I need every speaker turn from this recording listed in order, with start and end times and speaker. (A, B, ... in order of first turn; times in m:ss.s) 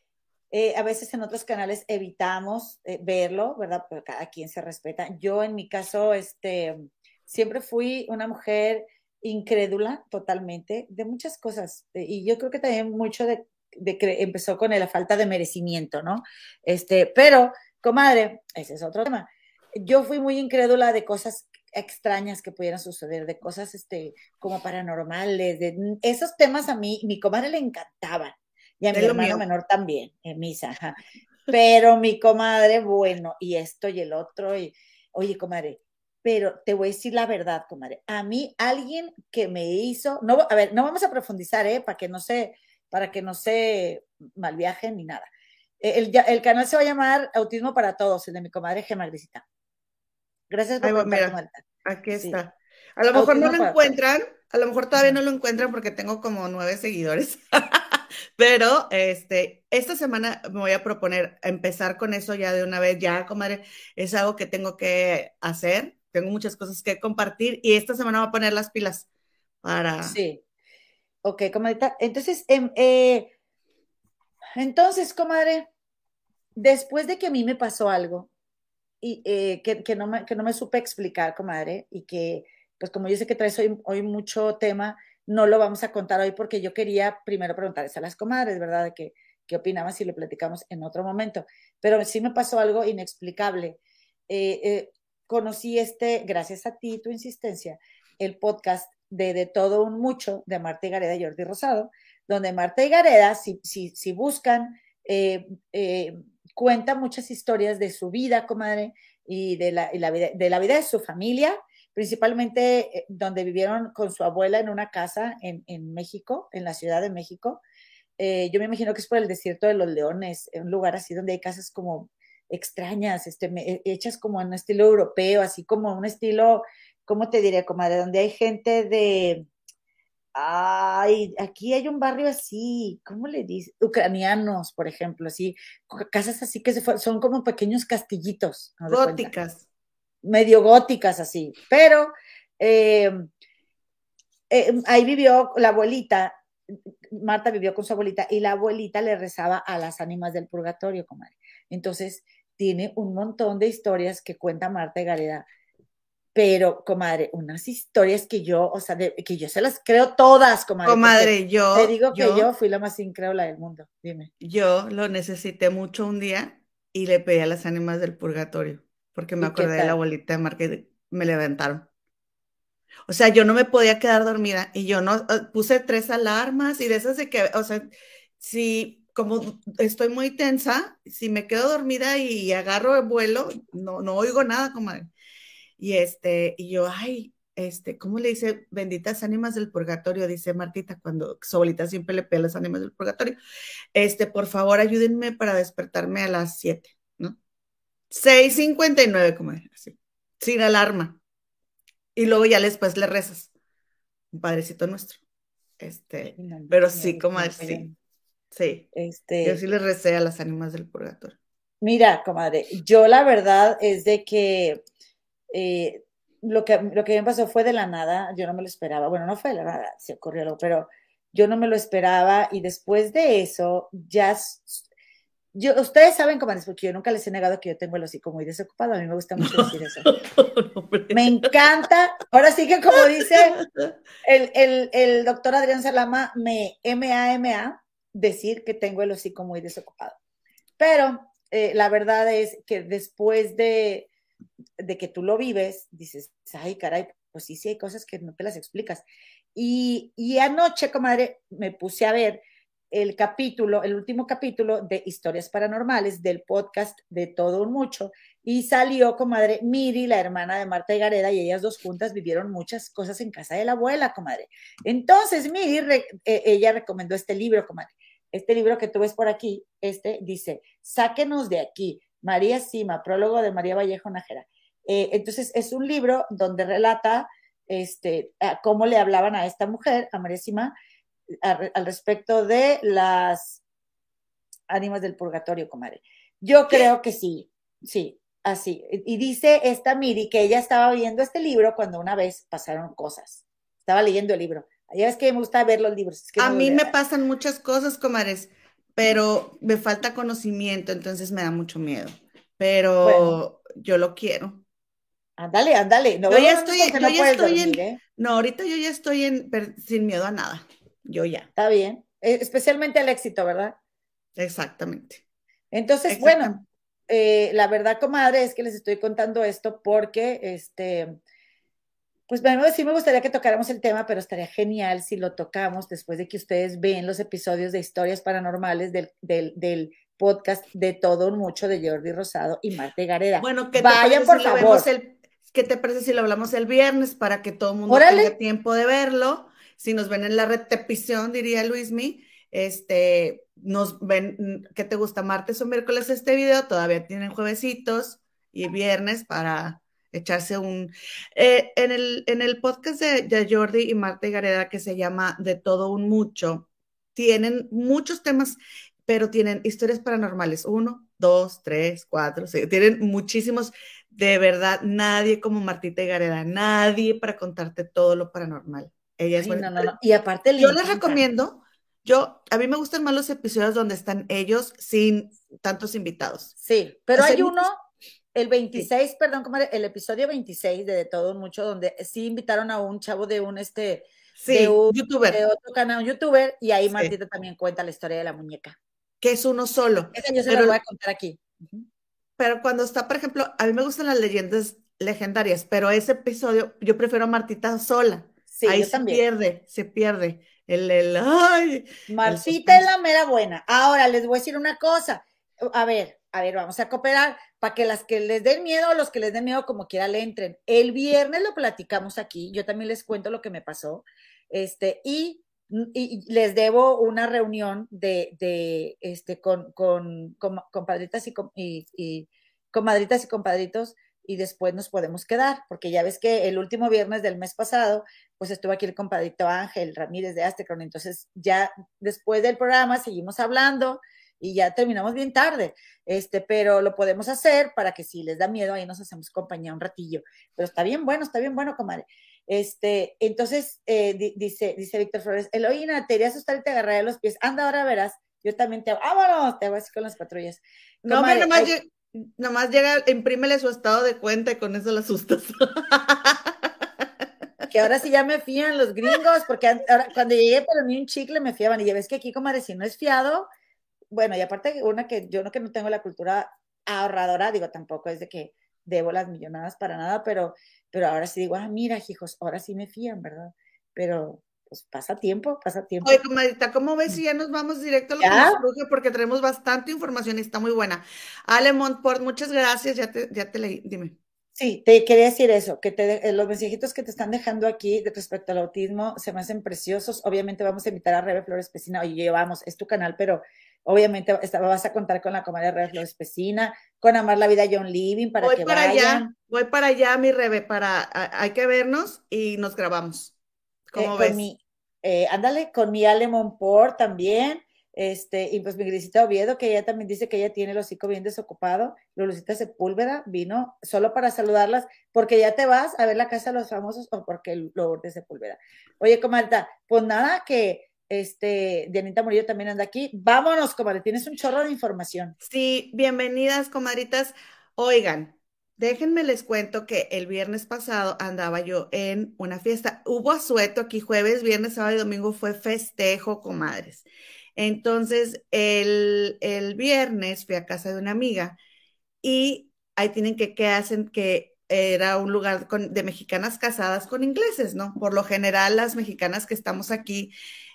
0:00.5-0:31.0 A
0:28.9-0:29.4 B
0:31.5-0:45.3 A
0:45.8-0:49.4 A
0:50.5-0:51.6 A
0:50.8-1:09.1 B
0:53.1-0:54.0 A
1:09.6-1:10.2 B
1:10.0-1:10.4 A
1:11.2-1:13.3 A
1:14.6-1:15.7 A
1:16.6-1:18.3 A
1:19.0-1:57.6 A
1:58.2-2:09.5 A
2:10.4-2:19.3 A
2:18.9-2:19.6 B
2:20.2-2:23.3 A
2:24.5-2:26.4 A
2:27.1-2:35.4 A
2:36.4-2:44.3 A
2:40.8-2:42.5 B
2:44.4-2:51.9 B
2:49.4-2:50.0 A
2:53.1-3:05.1 B
3:05.8-3:13.4 B
3:14.0-3:17.4 B
3:18.1-3:21.2 B
3:22.2-3:23.5 B
3:24.3-3:25.2 B
3:25.8-3:27.8 B
3:26.4-3:27.9 A
3:28.5-3:28.9 B
3:28.9-3:29.6 A
3:29.4-3:31.4 B
3:31.8-3:34.8 A
3:35.5-3:44.8 A
3:45.5-3:50.1 A
3:49.4-3:51.6 B
3:51.1-3:53.6 A
3:52.9-3:53.9 B
3:54.2-4:00.2 A
4:00.8-4:04.1 A
4:04.8-4:09.0 A
4:09.6-4:12.4 A
4:12.9-4:40.7 A
4:41.4-4:43.6 A
4:44.7-4:56.9 A
4:56.4-5:04.6 B
5:03.0-5:03.4 A
5:05.4-5:08.0 A
5:06.3-5:11.5 B
5:11.6-5:13.8 A
5:14.4-5:15.2 B
5:15.7-5:16.6 A
5:16.1-5:16.6 B
5:17.1-5:21.2 A
5:22.3-5:34.9 A
5:33.4-6:09.9 B
5:37.9-5:38.3 A
6:09.4-6:11.2 A
6:10.6-6:16.5 B
6:16.6-6:17.8 A
6:17.2-6:17.6 B
6:18.4-6:28.8 A
6:24.4-6:25.4 B
6:29.2-6:30.8 B
6:30.1-6:31.8 A
6:32.4-6:42.9 B
6:38.5-6:39.2 A
6:42.1-7:31.7 A
7:31.0-7:36.7 B
7:37.7-7:43.5 A
7:44.1-7:56.2 A
7:56.0-8:04.2 B
7:58.2-7:58.6 A
8:04.6-8:19.3 A
8:18.4-8:23.3 B
8:23.9-8:24.4 B
8:24.0-8:45.4 A
8:45.4-8:57.0 B
8:57.6-9:01.6 B
9:02.2-9:10.3 B